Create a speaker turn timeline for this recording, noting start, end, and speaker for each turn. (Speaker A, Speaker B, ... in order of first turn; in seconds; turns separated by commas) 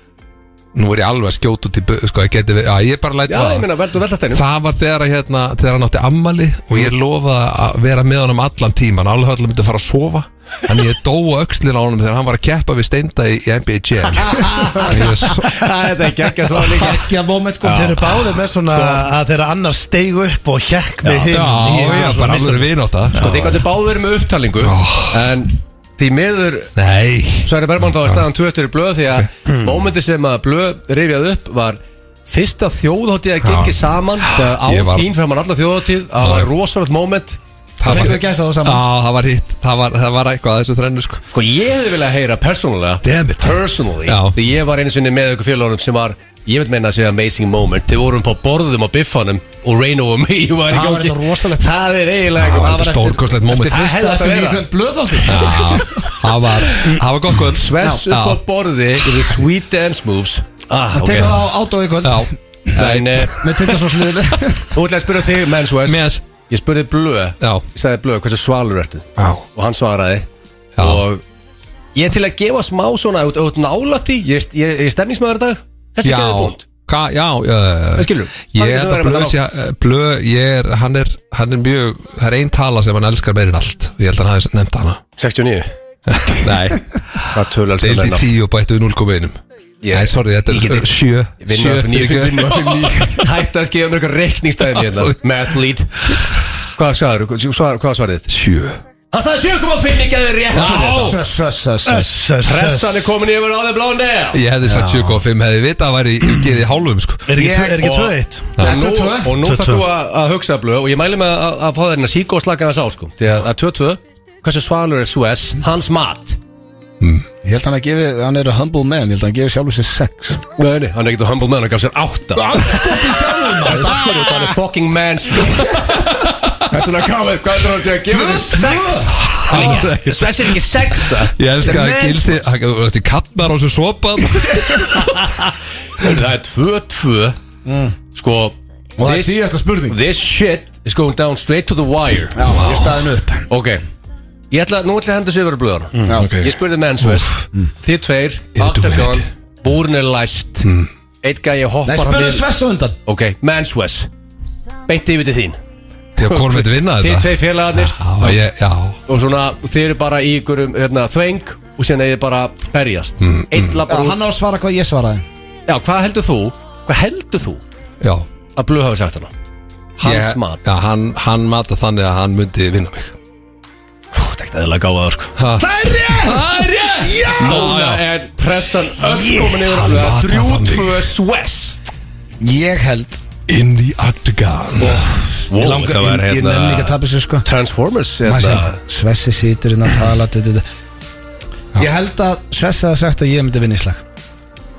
Speaker A: 0.8-3.7, Speaker B: 3.3-4.4, Speaker A: 4.3-15.6, Speaker C: 14.5-14.9, Speaker B: 14.7-17.1, Speaker C: 16.8-18.0, Speaker D: 17.6-23.6, Speaker B: 17.6-18.2, Speaker B: 21.0-21.5, Speaker A: 21.3-23.3, Speaker B: 23.1-26.7, Speaker A: 24.6-25.3, Speaker A: 26.8-28.3, Speaker B: 27.4-37.4, Speaker D: 29.5-29.8, Speaker A: 33.4-35.1, Speaker A: 36.2-36.5, Speaker A: 37.8-41.2, Speaker C: 37.8-38.8, Speaker B: 41.3-53.0, Speaker A: 43.0-43.5, Speaker A: 44.0-44.4, Speaker C: 50.7-51.7, Speaker A: 52.4-54.0, Speaker C: 52.5-56.2, Speaker B: 53.7-54.7, Speaker B: 55.2-55.9, Speaker A: 55.3-58.4, Speaker B: 56.6-61.5, Speaker C: 60.9-62.3, Speaker A: 62.0-64.1, Speaker B: 62.8-63.8, Speaker C: 63.4-64.7, Speaker B: 64.7-70.3, Speaker A: 65.8-66.2, Speaker A: 69.2-69.4, Speaker A: 70.8-71.0, Speaker B: 70.8-71.2, Speaker B: 72.0-76.6, Speaker A: 76.0-85.0, Speaker B: 78.0-79.4, Speaker B: 85.2-85.7, Speaker A: 86.1-89.4, Speaker B: 87.3-88.3, Speaker B: 89.8-96.2, Speaker A: 89.9-93.3, Speaker A: 94.7-95.2, Speaker A: 96.1-96.4, Speaker B: 96.8-98.3, Speaker A: 98.3-98.8, Speaker B: 99.1-101.2, Speaker A: 100.5-101.2, Speaker C: 100.7-102.1, Speaker D: 101.8-103.1, Speaker B: 102.5-104.4, Speaker A: 104.3-107.3, Speaker D: 104.6-105.2, Speaker D: 107.3-108.6, Speaker C: 107.4-108.1, Speaker C: 108.6-109.4, Speaker B: 108.6-116.4, Speaker D: 109.3-109.9, Speaker A: 117.0-117.3, Speaker C: 117.4-120.4, Speaker B: 120.6-132.5, Speaker C: 122.4-124.3, Speaker A: 125.8-126.5, Speaker C: 128.1-129.8, Speaker A: 129.0-135.3, Speaker B: 135.0-137.4, Speaker C: 137.7-138.0, Speaker B: 138.1-142.5, Speaker C: 139.0-140.0, Speaker C: 142.3-143.5, Speaker A: 142.5-143.1, Speaker B: 143.5-143.8, Speaker B: 144.5-150.7, Speaker A: 146.1-147.4, Speaker A: 148.6-149.2, Speaker A: 150.6-150.9, Speaker B: 151.2-152.5, Speaker C: 151.8-153.0, Speaker B: 153.1-154.1, Speaker B: 154.9-155.6, Speaker A: 156.2-159.0, Speaker B: 156.2-158.4, Speaker B: 159.1-164.2, Speaker A: 163.2-163.8, Speaker C: 163.9-165.2, Speaker B: 165.7-167.6, Speaker A: 168.0-168.3, Speaker B: 168.6-169.3, Speaker B: 170.0-170.6, Speaker A: 170.0-173.2, Speaker B: 174.1-175.4, Speaker A: 175.4-178.1, Speaker D: 175.6-176.6, Speaker B: 177.3-181.8, Speaker A: 179.0-181.1, Speaker C: 182.4-183.2, Speaker A: 183.5-185.1, Speaker C: 184.8-187.5, Speaker B: 185.5-188.8, Speaker C: 188.2-190.6, Speaker C: 191.8-194.0